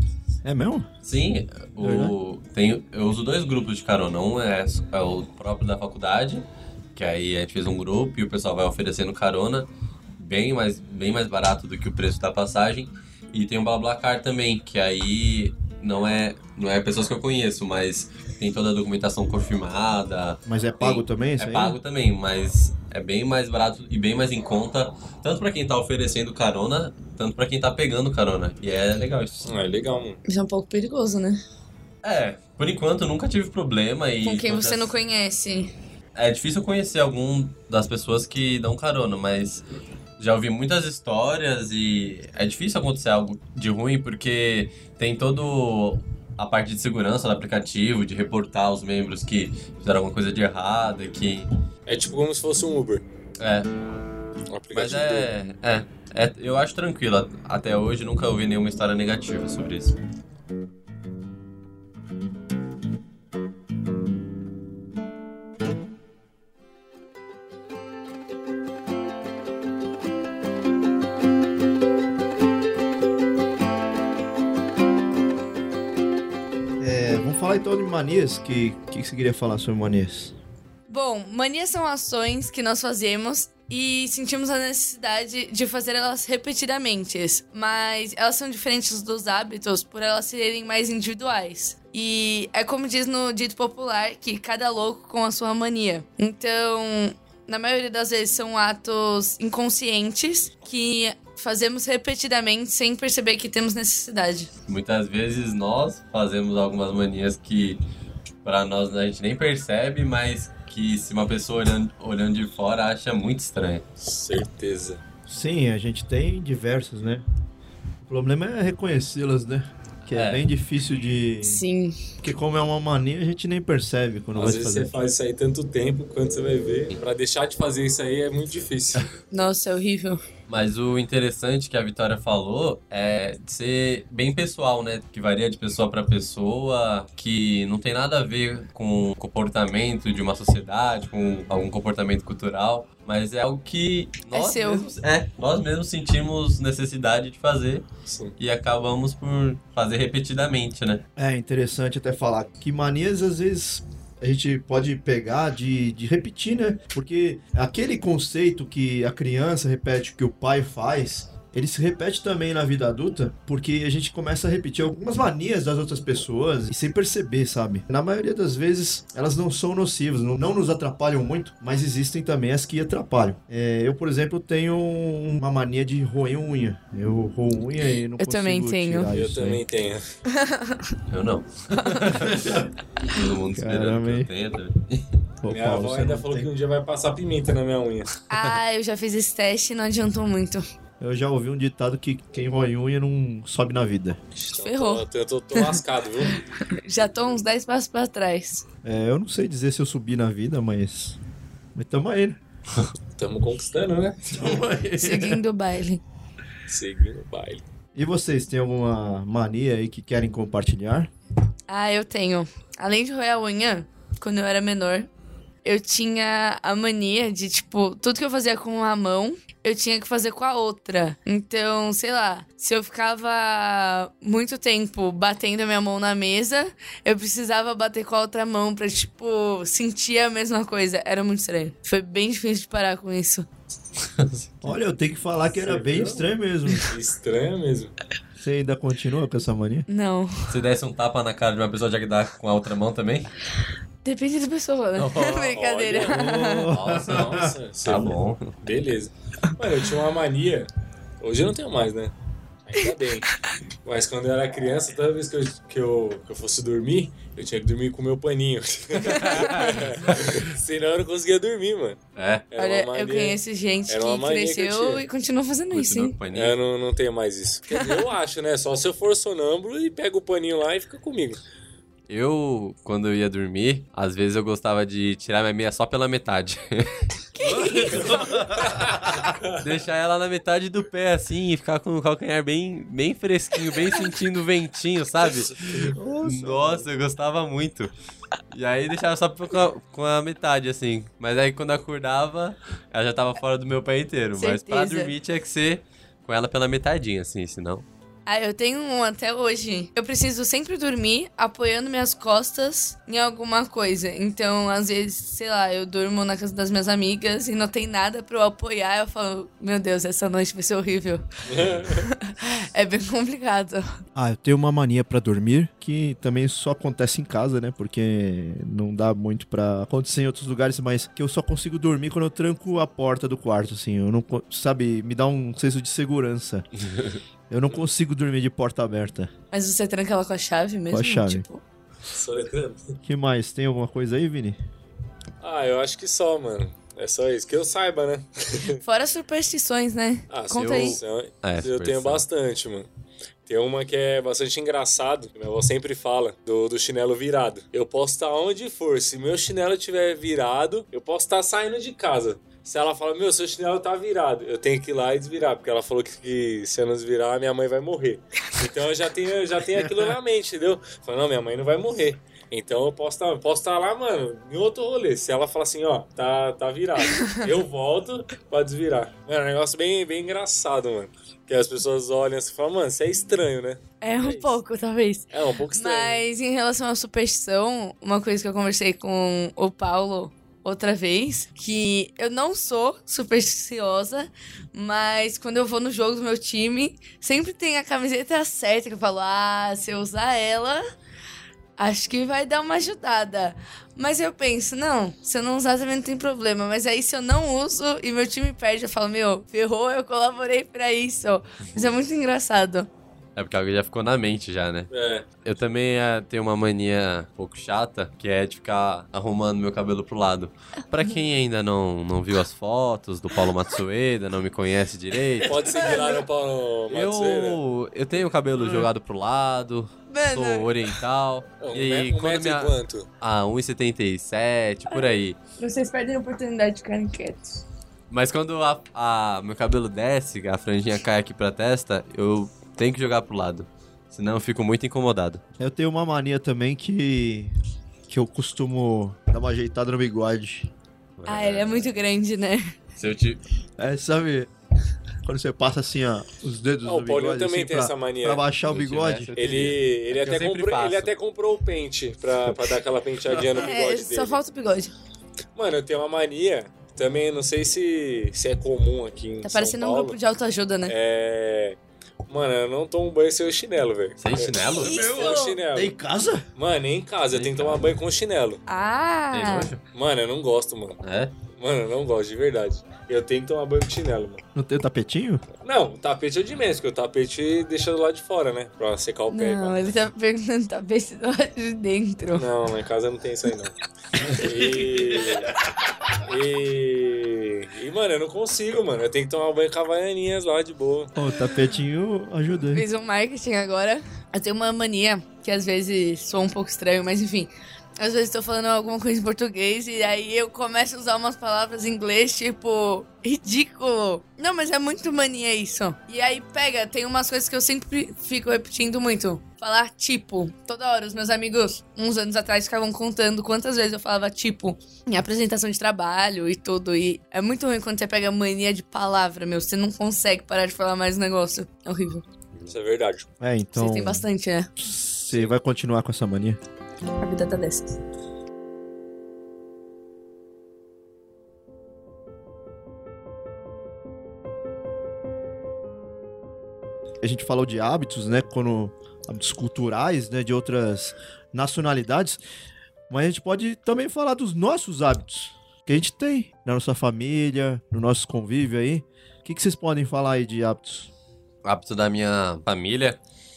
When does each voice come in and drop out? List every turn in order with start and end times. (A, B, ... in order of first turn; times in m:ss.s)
0:00.4-0:00.9 A
0:01.0-0:29.5 B
0:01.8-0:02.1 A
0:20.5-0:21.8 A
0:29.4-0:30.2 C
0:30.3-0:31.4 D
0:32.0-0:34.9 B
0:34.2-0:35.7 D
0:36.1-0:39.6 B
0:40.2-0:51.5 B
0:51.9-0:53.0 C
0:53.4-0:53.7 B
0:54.5-0:55.3 C
0:54.7-1:00.0 B
1:16.8-1:20.3 A
1:20.9-1:44.5 D
1:44.7-1:47.8 B
1:48.4-1:53.8 B
1:54.0-1:55.0 C
1:55.3-1:57.2 A
1:58.0-2:01.6 A
2:00.1-2:00.5 B
2:01.4-2:02.0 D
2:02.2-2:04.9 A
2:04.3-2:09.1 C
2:09.3-2:10.2 D
2:10.5-2:27.8 B
2:24.3-2:24.8 D
2:28.0-2:28.3 C
2:28.4-2:31.0 B
2:31.2-2:59.6 A
2:58.2-2:59.1 D
2:59.1-3:00.0 C
3:00.3-3:01.0 D
3:01.1-3:05.1 B
3:01.7-3:02.1 D
3:02.1-3:02.6 A
3:03.5-3:04.3 A
3:05.4-3:06.5 A
3:05.5-3:08.1 C
3:08.3-3:10.6 D
3:11.0-3:14.2 A
3:14.3-3:16.4 C
3:14.5-3:18.6 D
3:18.8-3:21.2 A
3:21.7-3:22.4 A
3:23.2-3:24.6 C
3:24.3-3:25.4 A
3:25.0-3:26.0 D
3:26.6-3:27.6 C
3:28.0-3:31.1 A
3:31.7-3:35.1 D
3:35.6-3:53.5 D
3:54.0-3:54.5 B
3:54.6-3:56.9 A
3:55.5-3:57.9 C
3:58.4-3:59.9 A
3:59.9-4:00.6 D
4:00.5-4:03.3 B
4:04.0-4:06.7 D
4:04.9-4:05.6 B
4:05.5-4:06.3 C
4:06.0-4:07.5 A
4:06.7-4:08.4 B
4:06.9-4:10.7 C
4:11.2-4:12.1 C
4:12.6-4:13.3 C
4:13.8-4:22.0 C
4:19.1-4:19.8 D
4:19.1-4:20.4 B
4:22.2-4:22.5 B
4:22.5-4:25.0 C
4:22.6-4:26.1 D
4:25.7-4:26.6 B
4:26.3-4:31.4 C
4:27.7-4:28.1 D
4:32.1-4:37.0 B
4:37.3-4:38.4 D
4:37.4-4:39.3 A
4:38.6-4:39.6 C
4:39.5-4:47.9 B
4:45.8-4:46.9 A
4:48.5-4:57.8 B
4:54.4-4:55.1 D
4:58.2-5:11.2 D
5:11.5-5:12.0 C
5:12.0-5:13.8 D
5:14.2-5:26.6 A
5:27.5-5:29.3 A
5:29.5-5:31.6 D
5:30.9-5:31.4 A
5:32.1-5:33.0 C
5:33.0-5:34.6 A
5:35.4-5:38.8 C
5:38.8-5:41.0 D
5:40.3-5:42.9 C
5:40.5-5:42.2 B
5:43.4-6:14.6 C
6:07.1-6:07.5 D
6:14.0-6:30.8 D
6:15.3-6:16.2 C
6:31.8-6:42.9 D
6:41.6-6:42.0 B
6:43.4-6:44.9 B
6:44.9-6:45.2 C
6:45.4-6:55.8 B
6:55.4-6:57.6 C
6:55.8-6:56.2 D
6:56.9-7:05.4 B
7:00.1-7:00.7 D
7:01.6-7:03.1 C
7:05.6-7:07.6 D
7:08.1-7:15.4 B
7:15.6-7:17.5 A
7:18.1-7:20.7 A
7:21.2-7:22.0 B
7:21.2-7:22.8 D
7:23.0-7:23.4 B
7:23.8-7:24.5 A
7:25.2-7:29.8 A
7:26.8-7:28.4 C
7:28.7-7:29.3 B
7:29.4-7:34.4 C
7:30.1-7:31.1 B
7:33.5-7:34.9 D
7:35.5-7:40.2 C
7:39.4-7:40.9 D
7:40.8-7:41.8 C
7:42.3-7:45.9 C
7:44.2-7:45.0 B
7:44.8-7:45.6 D
7:44.8-7:46.5 A
7:46.6-7:48.6 C
7:47.3-7:47.9 B
7:48.7-7:49.7 D
7:49.3-7:49.8 B
7:49.9-7:51.0 C
7:51.0-7:51.4 B
7:51.6-7:54.4 C
7:54.5-7:55.4 A
7:55.6-7:59.8 C
7:59.3-8:02.5 D
8:02.3-8:03.7 C
8:04.2-8:05.4 A
8:04.3-8:05.5 C
8:06.2-8:11.1 C
8:11.2-8:12.8 A
8:12.7-8:42.2 D
8:42.7-8:43.3 C
8:43.4-8:44.3 A
8:43.7-8:44.7 D
8:44.8-8:46.6 A
8:47.2-8:48.0 D
8:57.2-9:02.4 A
9:03.1-9:11.1 A
9:11.6-9:13.2 B